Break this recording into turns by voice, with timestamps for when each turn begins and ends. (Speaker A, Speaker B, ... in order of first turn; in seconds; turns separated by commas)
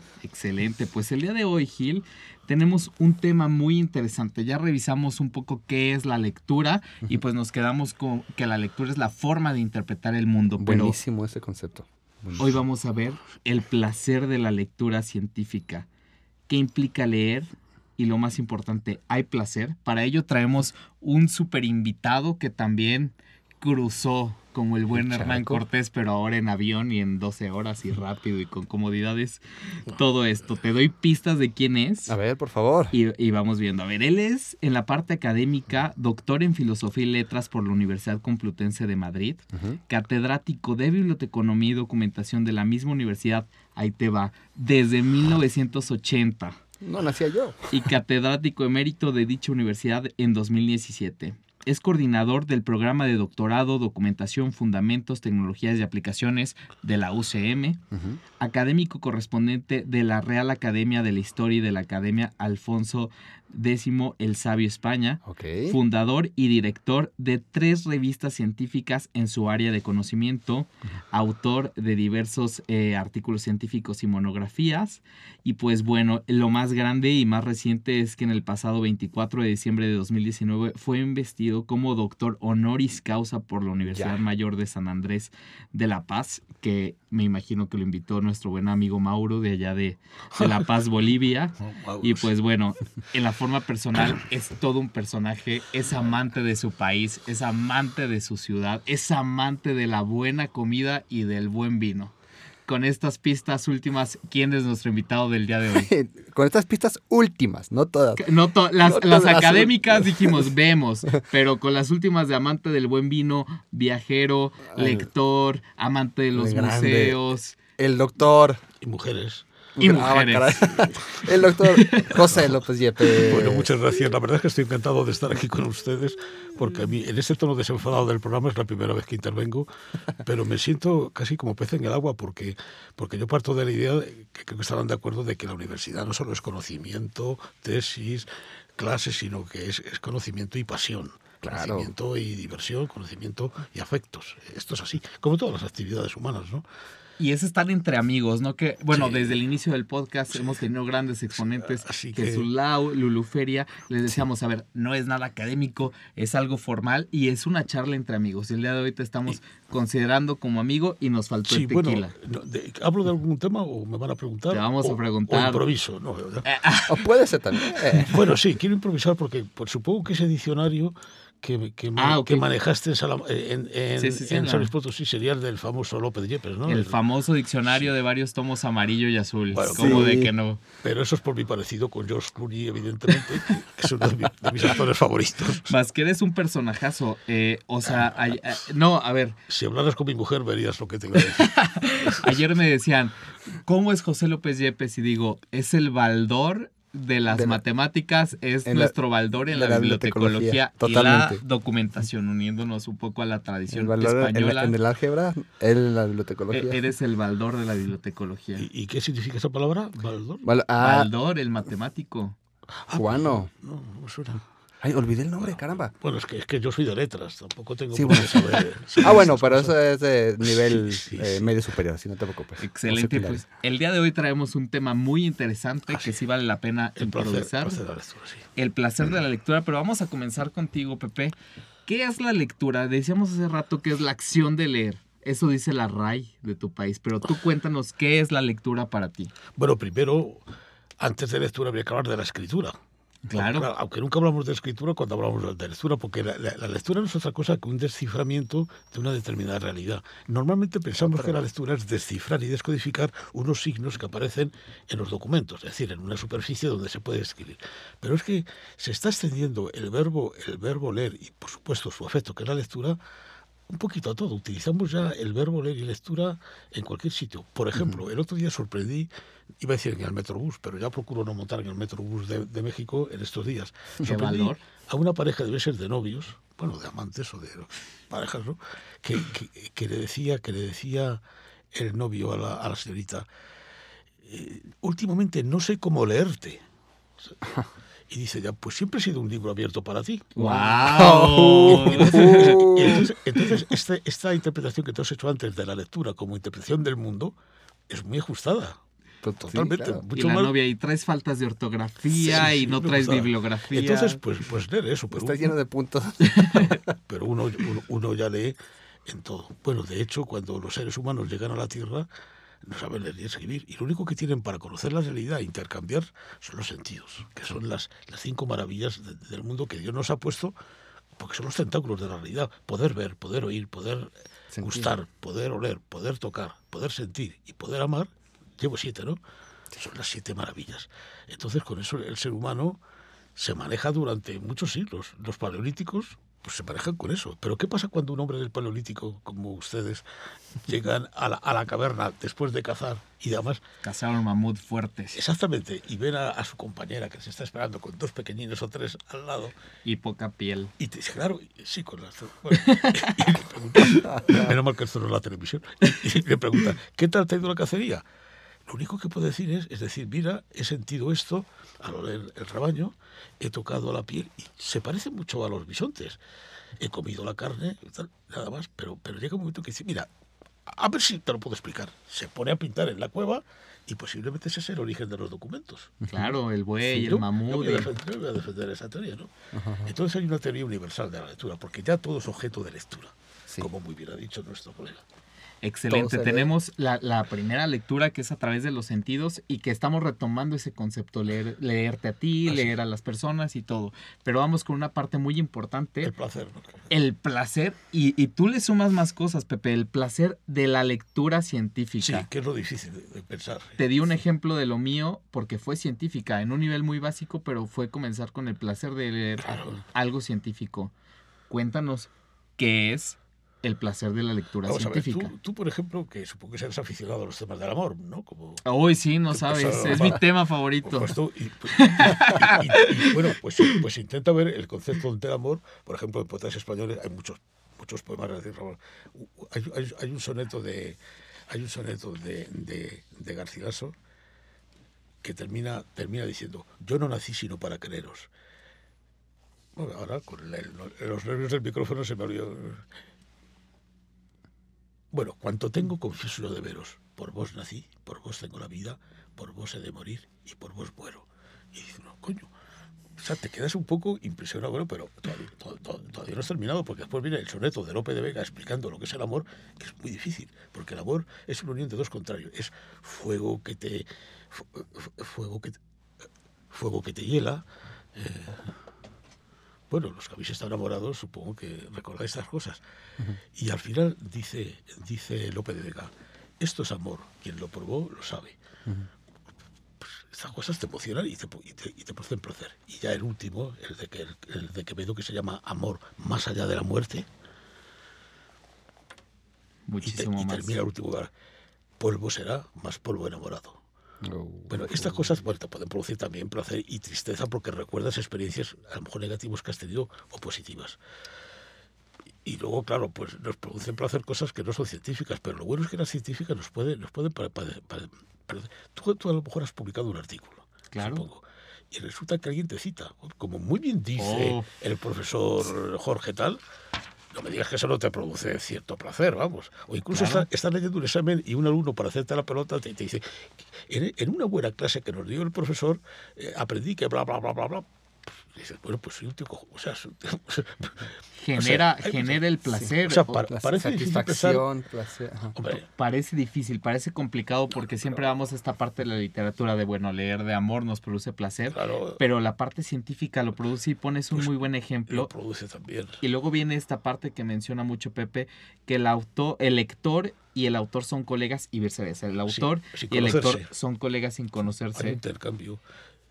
Speaker A: 0.2-11.0, Speaker B: 10.6-12.6, Speaker A: 12.4-15.9, Speaker A: 16.5-32.1, Speaker B: 25.0-25.6, Speaker B: 32.1-32.9, Speaker A: 32.9-46.6, Speaker B: 39.5-39.8, Speaker B: 46.8-47.8, Speaker A: 47.7-57.8, Speaker B: 57.9-58.2, Speaker A: 58.4-102.1, Speaker B: 65.2-65.8, Speaker C: 91.6-92.3, Speaker A: 102.7-105.9, Speaker B: 105.7-108.2, Speaker A: 108.2-117.5, Speaker B: 108.8-110.5, Speaker B: 114.7-115.1, Speaker B: 116.3-117.2, Speaker B: 117.8-118.6, Speaker C: 118.8-119.5, Speaker B: 119.8-123.7, Speaker A: 119.8-120.8, Speaker A: 121.5-122.2, Speaker C: 122.1-122.5, Speaker C: 123.1-129.7, Speaker C: 130.2-146.6, Speaker B: 141.4-141.9, Speaker A: 147.2-162.1, Speaker C: 148.9-149.4, Speaker C: 151.6-152.5, Speaker C: 161.5-166.4, Speaker A: 164.5-165.6, Speaker A: 166.4-168.1, Speaker B: 166.9-168.2, Speaker C: 168.1-177.0, Speaker A: 172.0-172.4, Speaker A: 174.0-174.7, Speaker A: 176.7-180.6, Speaker C: 179.5-180.2, Speaker B: 179.8-180.3, Speaker C: 180.8-185.7, Speaker A: 185.7-189.4, Speaker C: 189.5-192.4, Speaker A: 191.3-204.7, Speaker B: 197.3-197.6, Speaker B: 198.6-198.9, Speaker B: 199.5-201.4, Speaker B: 203.7-206.8, Speaker A: 206.5-208.7, Speaker C: 208.6-210.4, Speaker B: 210.4-211.1, Speaker A: 210.8-212.3, Speaker C: 212.9-214.4, Speaker B: 212.9-213.5, Speaker B: 214.8-215.9, Speaker C: 215.3-219.7, Speaker B: 217.9-223.4, Speaker C: 220.4-221.5, Speaker A: 222.6-227.8, Speaker C: 227.0-228.4, Speaker A: 228.6-231.3, Speaker A: 231.8-239.3, Speaker C: 239.6-240.5, Speaker C: 241.0-242.8, Speaker A: 243.3-243.7, Speaker C: 243.3-263.0, Speaker C: 263.7-269.1, Speaker C: 269.6-281.2, Speaker A: 274.0-274.6, Speaker C: 281.7-283.3, Speaker C: 284.2-286.6, Speaker C: 288.1-290.3, Speaker A: 290.4-292.7, Speaker B: 290.4-293.1, Speaker C: 291.6-297.3, Speaker C: 297.9-298.8, Speaker B: 299.2-300.0, Speaker C: 299.4-300.5, Speaker A: 300.1-304.2, Speaker C: 302.1-305.5, Speaker B: 305.1-306.8, Speaker A: 306.2-306.7, Speaker C: 307.1-312.1, Speaker C: 312.6-320.5, Speaker C: 321.2-329.2, Speaker B: 324.5-324.9, Speaker C: 329.8-332.8, Speaker C: 333.4-340.0, Speaker C: 340.6-343.6, Speaker A: 343.8-345.2, Speaker C: 345.1-349.5, Speaker A: 349.8-350.7, Speaker C: 350.8-358.0, Speaker A: 352.5-354.2, Speaker C: 358.7-366.2, Speaker C: 366.8-370.1, Speaker C: 370.6-376.1, Speaker A: 376.1-377.9, Speaker C: 376.9-379.3, Speaker B: 379.5-379.9, Speaker C: 379.8-385.0, Speaker A: 385.6-396.1, Speaker B: 385.9-386.5, Speaker C: 396.0-396.8, Speaker A: 396.9-402.3, Speaker C: 402.0-403.8, Speaker A: 403.8-410.9, Speaker C: 409.4-409.8, Speaker A: 411.5-415.3, Speaker C: 414.6-418.6, Speaker A: 418.6-421.1, Speaker C: 419.3-420.2, Speaker C: 420.8-431.0, Speaker A: 421.7-423.8, Speaker C: 431.5-433.9, Speaker C: 435.2-438.3, Speaker C: 439.8-442.8, Speaker C: 445.1-452.5, Speaker C: 453.2-465.8, Speaker C: 466.7-468.7, Speaker C: 469.9-472.8, Speaker C: 473.5-478.6, Speaker C: 480.0-487.3, Speaker A: 489.9-490.8, Speaker C: 490.0-491.3, Speaker C: 492.0-493.8, Speaker B: 494.2-495.4, Speaker C: 494.7-501.0, Speaker C: 502.4-516.6, Speaker A: 510.9-511.3, Speaker A: 514.2-514.7, Speaker C: 517.3-532.4, Speaker A: 520.1-520.5, Speaker A: 531.4-533.5, Speaker C: 533.0-534.7, Speaker B: 533.5-535.5, Speaker C: 535.5-535.9, Speaker A: 535.7-545.3, Speaker C: 541.7-542.2, Speaker C: 545.1-546.2, Speaker A: 546.2-555.2, Speaker C: 552.5-553.7, Speaker C: 554.9-555.8